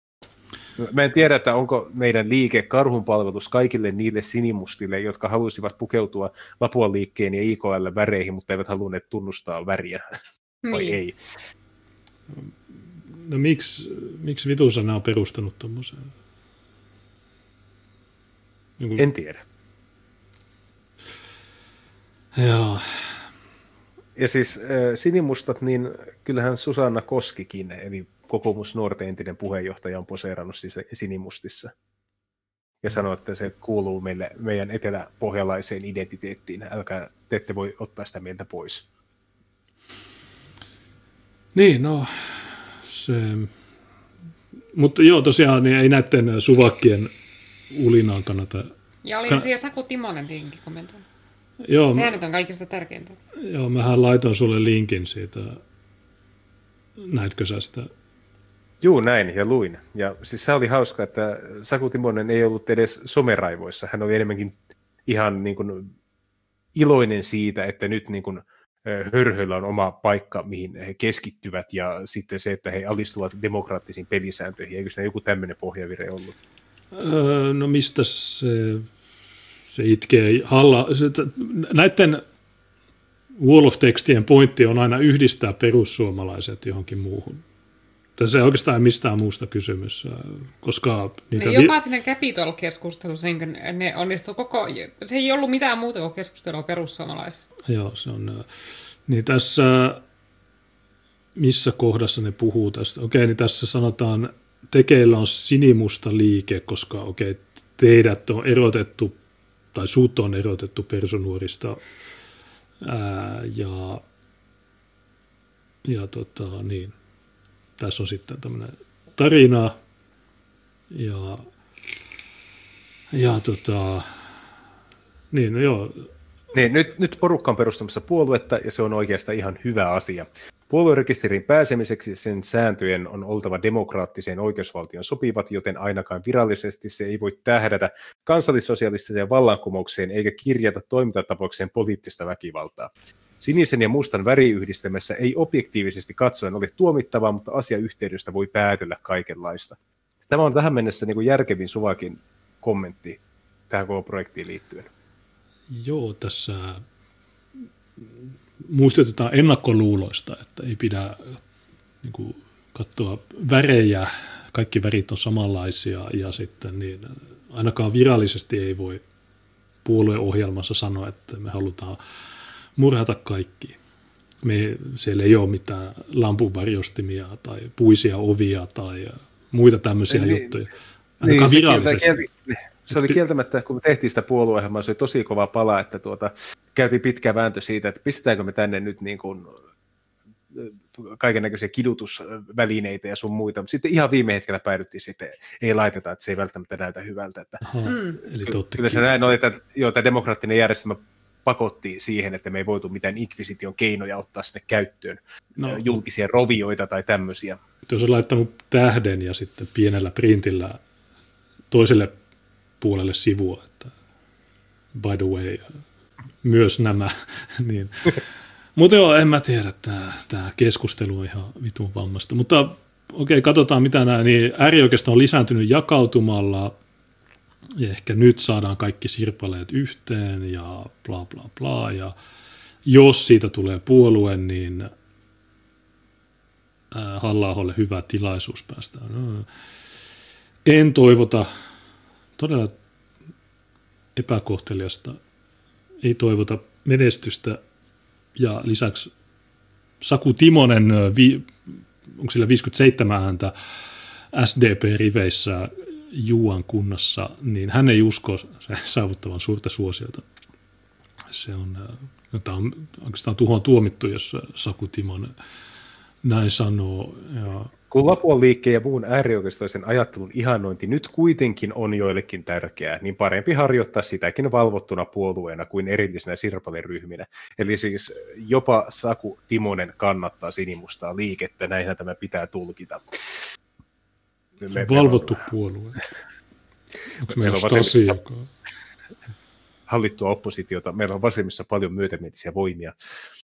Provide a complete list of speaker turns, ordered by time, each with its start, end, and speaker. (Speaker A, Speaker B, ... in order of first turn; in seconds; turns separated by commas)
Speaker A: 0.8-10.0, Speaker B: 10.7-11.0, Speaker A: 10.7-11.2, Speaker C: 12.3-16.1, Speaker C: 18.8-19.1, Speaker A: 19.0-19.4, Speaker C: 22.3-23.2, Speaker A: 24.2-31.7, Speaker A: 32.8-38.9, Speaker C: 41.5-43.5, Speaker C: 44.7-47.1, Speaker C: 47.7-48.7, Speaker B: 49.0-51.0, Speaker C: 51.6-52.1, Speaker B: 51.9-53.2, Speaker C: 53.4-55.6, Speaker C: 57.0-57.9, Speaker A: 58.8-65.9, Speaker A: 66.7-76.4, Speaker C: 76.9-78.9, Speaker C: 79.7-82.2, Speaker C: 83.4-87.4, Speaker C: 88.2-91.7, Speaker B: 91.4-97.4, Speaker C: 97.7-98.5, Speaker C: 99.1-100.0, Speaker C: 101.4-109.2, Speaker C: 109.7-111.8, Speaker C: 112.8-114.0, Speaker C: 115.8-116.9, Speaker C: 117.8-119.7, Speaker C: 120.9-121.4, Speaker C: 123.1-124.1, Speaker C: 125.3-126.1, Speaker A: 126.5-149.8, Speaker A: 150.3-154.9, Speaker C: 155.7-156.8, Speaker C: 158.7-161.4, Speaker C: 162.0-169.0, Speaker C: 169.8-172.0, Speaker C: 172.8-173.8, Speaker C: 174.4-182.2, Speaker A: 180.1-180.6, Speaker A: 181.2-189.6, Speaker C: 182.9-183.2, Speaker A: 190.5-197.6, Speaker C: 197.7-199.1, Speaker B: 197.9-198.2, Speaker A: 198.4-207.6, Speaker C: 205.6-206.0, Speaker C: 207.9-210.8, Speaker C: 211.7-212.2, Speaker C: 212.8-213.9, Speaker C: 214.9-215.8, Speaker C: 216.4-218.2, Speaker C: 218.8-226.7, Speaker C: 227.8-232.1, Speaker C: 232.9-234.9, Speaker C: 236.9-239.5, Speaker C: 240.7-241.5, Speaker C: 242.4-242.7, Speaker C: 244.2-245.2, Speaker C: 246.0-247.6, Speaker C: 248.4-249.1, Speaker C: 250.0-251.5, Speaker C: 252.1-253.5, Speaker C: 254.3-260.2, Speaker C: 261.3-265.3, Speaker C: 266.2-267.7, Speaker A: 267.9-283.4, Speaker A: 284.6-285.4, Speaker C: 284.7-286.0, Speaker C: 287.2-288.5, Speaker A: 287.3-288.2, Speaker A: 289.9-292.9